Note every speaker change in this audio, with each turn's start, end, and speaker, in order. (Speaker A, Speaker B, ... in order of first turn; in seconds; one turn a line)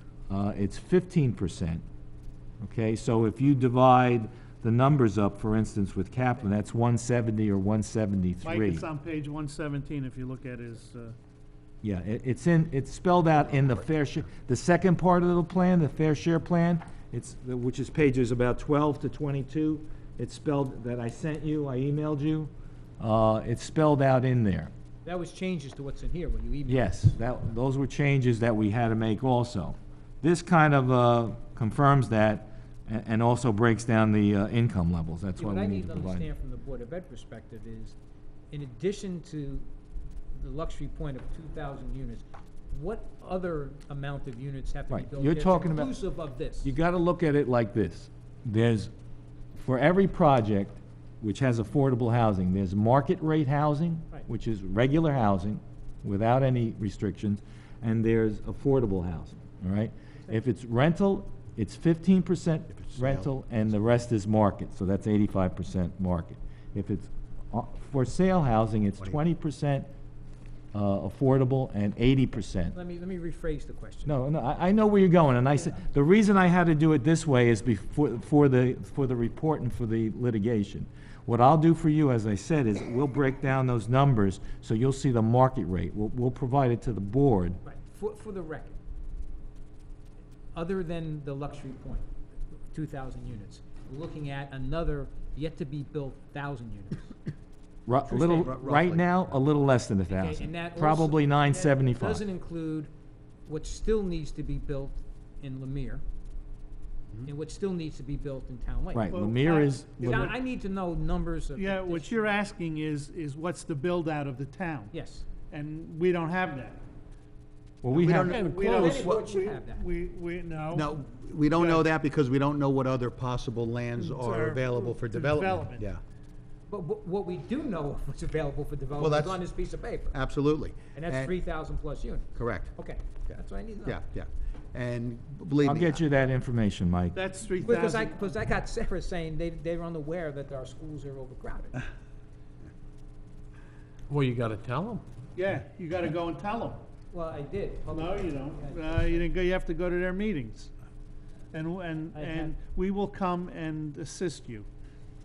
Speaker A: 0.3-1.8
Speaker A: 2.6-8.8
Speaker B: 8.4-11.1
Speaker A: 11.8-24.7
Speaker C: 25.0-27.0
Speaker A: 26.7-36.3
Speaker C: 35.4-38.0
Speaker C: 38.5-39.7
Speaker C: 40.3-46.7
Speaker A: 44.9-45.9
Speaker A: 46.6-48.9
Speaker A: 49.5-69.9
Speaker D: 62.7-63.3
Speaker A: 70.7-72.7
Speaker C: 72.7-74.2
Speaker A: 74.0-87.6
Speaker C: 87.6-88.8
Speaker C: 90.5-92.1
Speaker C: 92.7-97.1
Speaker A: 97.9-102.2
Speaker C: 98.1-98.5
Speaker D: 98.1-99.2
Speaker C: 100.1-102.9
Speaker C: 103.5-106.0
Speaker C: 107.2-109.2
Speaker A: 108.9-110.3
Speaker B: 109.1-110.3
Speaker C: 110.0-112.3
Speaker B: 111.5-114.9
Speaker C: 114.9-115.2
Speaker B: 115.5-116.8
Speaker A: 117.8-118.4
Speaker B: 117.9-120.9
Speaker E: 118.1-119.1
Speaker C: 118.6-119.9
Speaker D: 118.8-119.2
Speaker D: 120.7-126.0
Speaker B: 121.5-121.8
Speaker B: 124.0-125.8
Speaker C: 126.7-130.2
Speaker D: 129.0-129.4
Speaker D: 130.1-131.3
Speaker C: 130.9-134.0
Speaker D: 132.3-132.7
Speaker D: 133.3-136.0
Speaker A: 135.6-137.2
Speaker B: 137.1-138.2
Speaker C: 137.6-141.8
Speaker E: 144.1-145.0
Speaker B: 145.3-146.8
Speaker C: 147.1-149.3
Speaker B: 147.9-150.7
Speaker B: 151.5-154.7
Speaker C: 152.1-152.5